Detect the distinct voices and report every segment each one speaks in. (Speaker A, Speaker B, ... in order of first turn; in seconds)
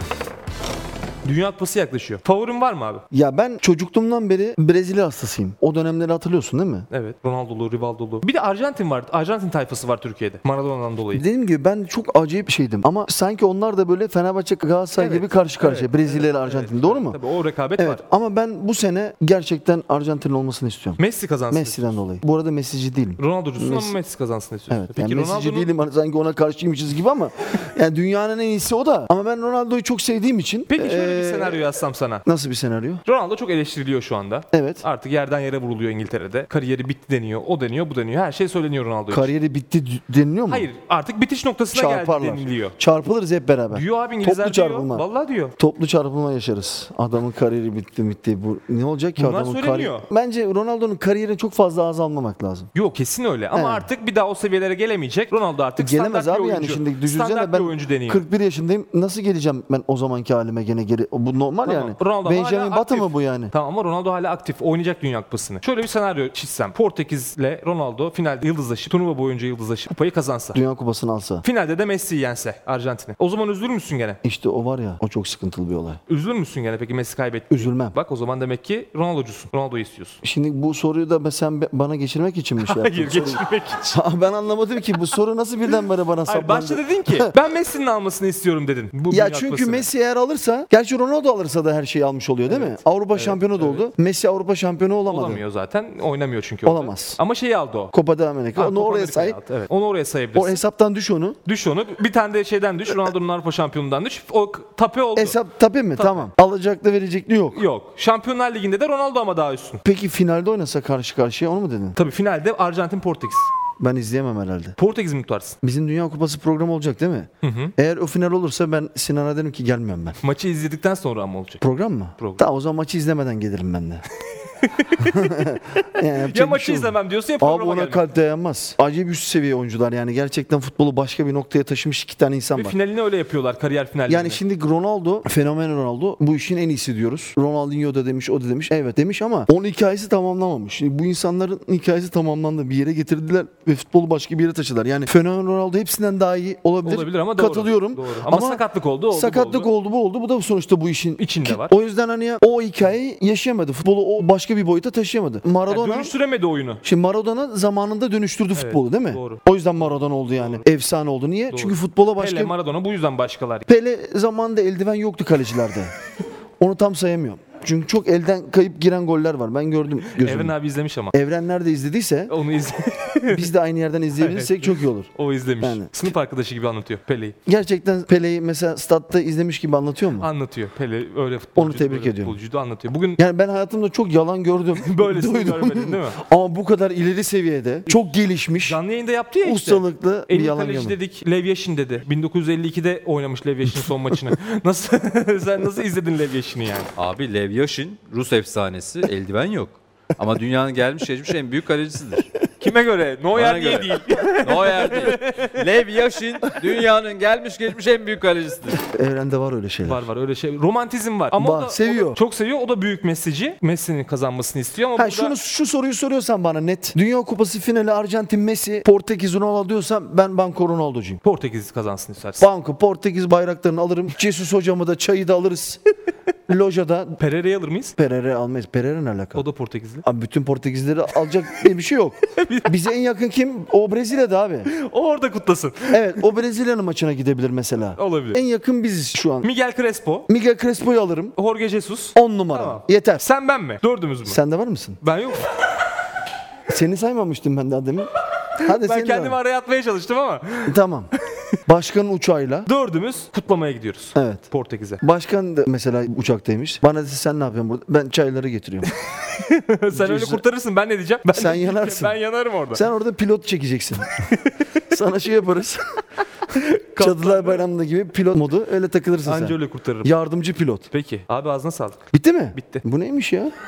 Speaker A: 1.2-3.0, 6.9-11.2, 15.0-18.0, 21.0-22.0, 23.2-25.7, 30.7-32.2, 33.0-39.3, 40.5-42.8, 43.7-45.5, 49.1-50.0, 52.7-58.2, 61.6-70.6, 71.4-74.2, 76.1-80.2, 82.6-84.0, 86.2-89.9, 92.5-93.9, 95.1-97.9, 98.5-100.6, 101.4-105.4, 105.9-106.3, 107.5-109.8, 112.0-113.5, 114.8-115.6, 117.4-117.7, 120.2-121.6, 122.2-122.4, 124.5-128.0, 132.5-134.4, 146.8-149.7, 151.2-151.8, 155.7-156.8, 158.5-159.4, 160.3-160.6, 161.5-163.7, 170.2-171.1, 172.3-173.5, 174.2-177.3, 180.2-183.2, 184.7-186.2, 188.6-196.9, 202.6-205.6, 209.8-215.3, 221.2-222.5, 227.2-227.9, 229.3-230.0, 232.3-232.7, 234.7-236.2, 237.9-238.4, 239.4-240.3, 241.3-244.4, 245.0-245.8, 248.6-251.4, 252.7-255.0, 259.3-262.8, 264.3-264.7, 266.5-267.6, 269.2-270.1, 270.9-272.8
Speaker B: 3.1-6.9, 11.1-17.2, 17.8-23.9, 24.7-31.6, 32.2-33.0, 34.5-34.8, 39.1-40.7, 41.7-45.0, 45.6-52.7, 53.5-53.9, 55.8-63.5, 70.5-71.4, 74.2-76.0, 77.5-77.9, 80.2-87.3, 89.1-95.4, 96.7-97.2, 97.9-99.4, 100.3-101.4, 105.2-107.6, 109.8-112.0, 113.8-114.8, 115.6-120.2, 121.6-124.0, 125.0-132.7, 134.1-156.1, 156.8-162.5, 163.7-165.9, 166.6-170.5, 171.1-172.3, 173.3-175.1, 175.6-175.9, 177.4-180.3, 181.6-182.3, 183.2-188.8, 189.4-190.9, 208.9-210.1, 211.4-212.2, 215.0-221.2, 222.4-225.8, 226.5-227.2, 228.0-229.4, 230.0-234.7, 235.9-239.5, 240.3-241.3, 242.1-243.2, 244.3-245.0, 246.7-249.4, 250.6-251.1, 251.7-252.7, 254.1-254.4, 255.0-258.9, 259.9-260.4, 261.3-262.2, 262.7-264.3, 264.9-266.0, 266.9-270.9, 272.1-273.5
Speaker C: 196.9-202.3, 203.3-208.8